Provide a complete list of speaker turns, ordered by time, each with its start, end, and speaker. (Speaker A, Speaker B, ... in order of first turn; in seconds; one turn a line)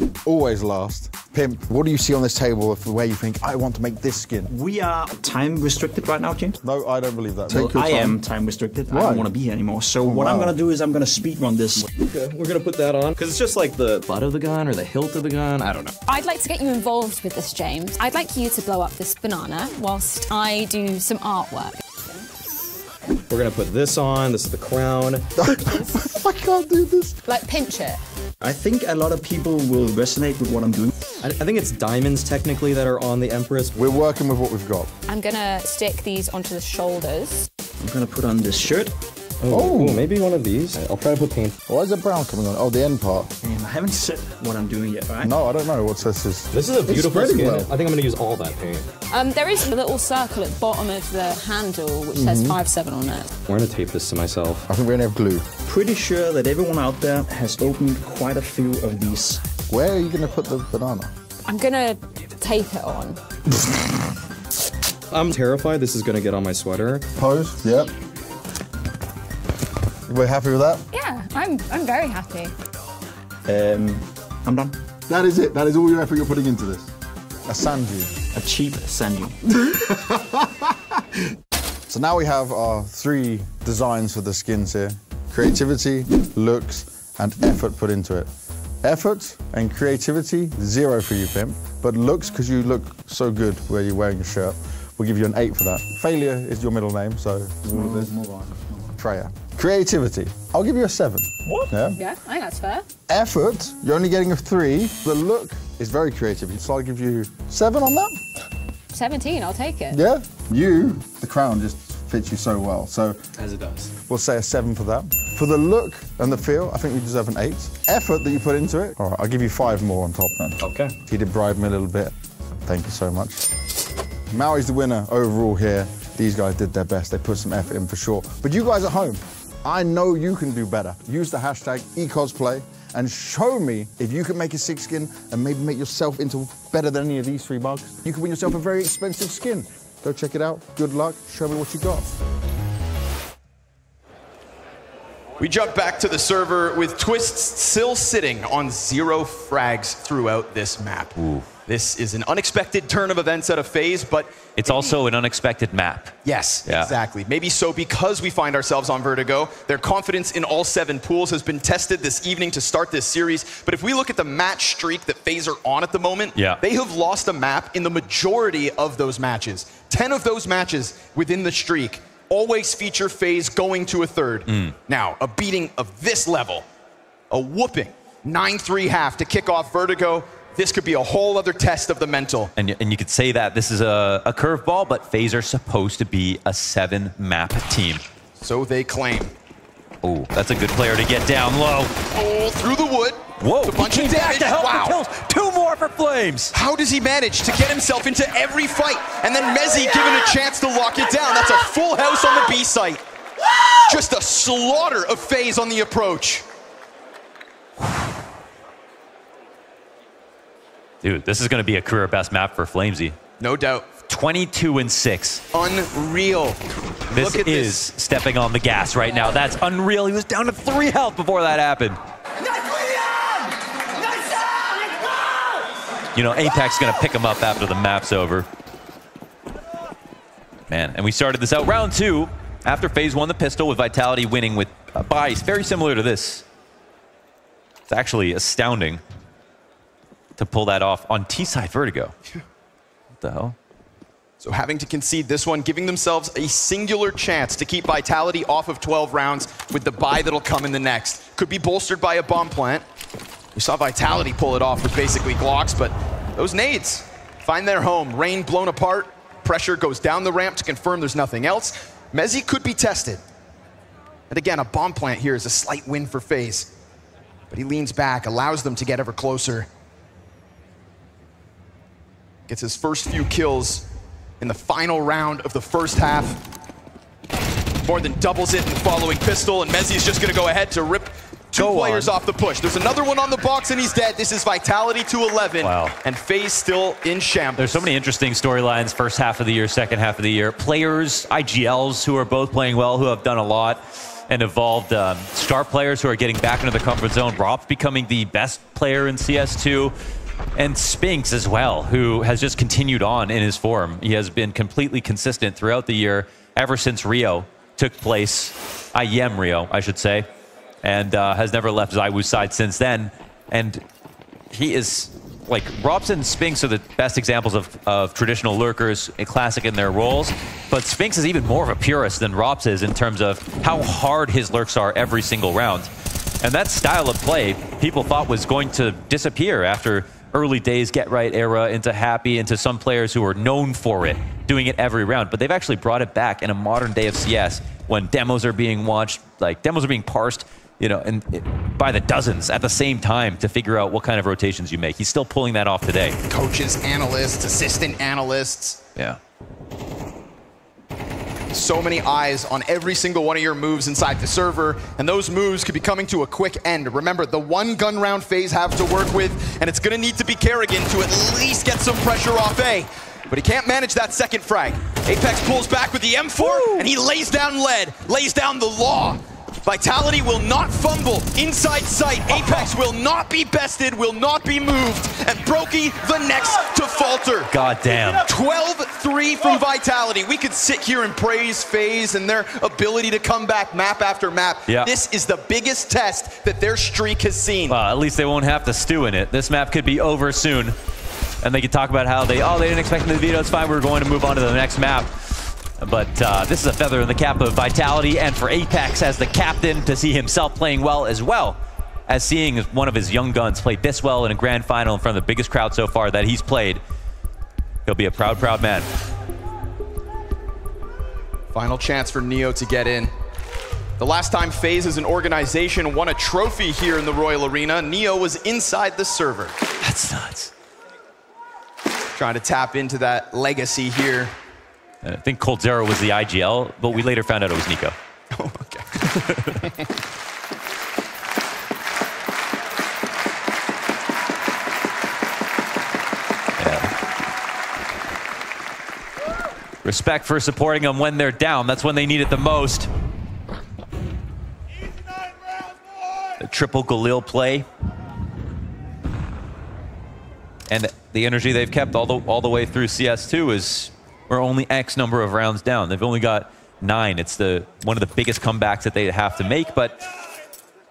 Speaker A: 0.2-4.5
Speaker B: 4.5-6.6
Speaker A: 6.6-8.2
Speaker B: 7.5-11.9
Speaker A: 8.9-9.3
Speaker A: 10.1-10.5
Speaker C: 11.9-15.9
Speaker D: 16.1-22.2
Speaker C: 23.3-25.4
Speaker A: 25.4-27.1
Speaker D: 27.2-28.0
Speaker B: 28.4-31.1
Speaker C: 31.2-33.7
Speaker A: 33.7-34.9
Speaker D: 35.1-37.5
Speaker B: 37.8-39.0
Speaker C: 39.4-41.6
Speaker A: 39.5-40.1
Speaker A: 41.7-43.3
Speaker B: 43.4-45.3
Speaker A: 45.2-47.7
Speaker C: 46.5-48.9
Speaker D: 49.1-53.3
Speaker A: 52.1-52.6
Speaker C: 53.5-54.7
Speaker A: 54.7-55.5
Speaker B: 55.7-59.5
Speaker A: 59.7-61.1
Speaker D: 61.5-63.2
Speaker C: 65.1-67.1
Speaker A: 67.1-67.9
Speaker A: 70.1-70.8
Speaker D: 70.9-72.5
Speaker B: 73.5-74.8
Speaker A: 75.1-76.9
Speaker A: 77.5-78.2
Speaker B: 78.3-79.3
Speaker A: 79.6-80.7
Speaker A: 81.9-88.3
Speaker A: 88.8-98.1
Speaker B: 97.7-98.7
Speaker A: 99.0-102.0
Speaker D: 101.9-102.9
Speaker A: 103.1-108.2
Speaker D: 108.9-110.0
Speaker A: 109.9-113.3
Speaker C: 113.4-113.9
Speaker A: 114.1-122.1
Speaker C: 120.6-121.0
Speaker A: 122.6-123.5
Speaker A: 124.3-142.1
Speaker E: 145.4-155.0
Speaker F: 151.2-151.5
Speaker F: 154.6-156.9
Speaker E: 156.2-176.7
Speaker F: 166.3-166.6
Speaker F: 174.5-174.8
Speaker E: 177.3-182.5
Speaker F: 182.6-188.0
Speaker E: 188.4-189.3
Speaker F: 190.0-191.9
Speaker E: 192.1-195.0
Speaker F: 193.4-196.5
Speaker E: 196.5-203.0
Speaker E: 203.8-206.4
Speaker F: 211.0-213.2
Speaker E: 213.4-213.9
Speaker F: 214.1-215.4
Speaker E: 215.5-217.8
Speaker F: 217.1-222.0
Speaker F: 226.1-228.5
Speaker F: 230.7-236.4
Speaker F: 237.9-239.0
Speaker F: 240.4-242.1
Speaker F: 243.2-243.6
Speaker E: 244.4-252.8
Speaker E: 253.5-263.2
Speaker E: 264.3-266.7
Speaker E: 267.5-269.7
Speaker E: 272.5-273.9
Speaker E: 274.4-276.4
Speaker E: 277.8-287.9
Speaker F: 281.5-282.1
Speaker F: 285.6-286.0
Speaker F: 287.6-299.9
Speaker F: 300.6-310.3
Speaker F: 310.8-313.8
Speaker F: 314.5-325.9
Speaker F: 326.4-346.2
Speaker E: 346.3-348.8
Speaker E: 351.5-377.5
Speaker F: 366.4-366.9
Speaker F: 377.5-378.3
Speaker E: 378.2-387.8
Speaker F: 387.7-390.8
Speaker F: 391.4-406.8
Speaker F: 407.9-408.9
Speaker E: 411.5-413.1
Speaker E: 414.0-419.6
Speaker F: 419.8-420.5
Speaker E: 422.1-424.4
Speaker F: 425.0-427.9
Speaker E: 428.3-429.8
Speaker F: 429.0-429.7
Speaker F: 436.6-436.9
Speaker F: 439.8-442.9
Speaker F: 446.4-447.7
Speaker F: 450.7-460.0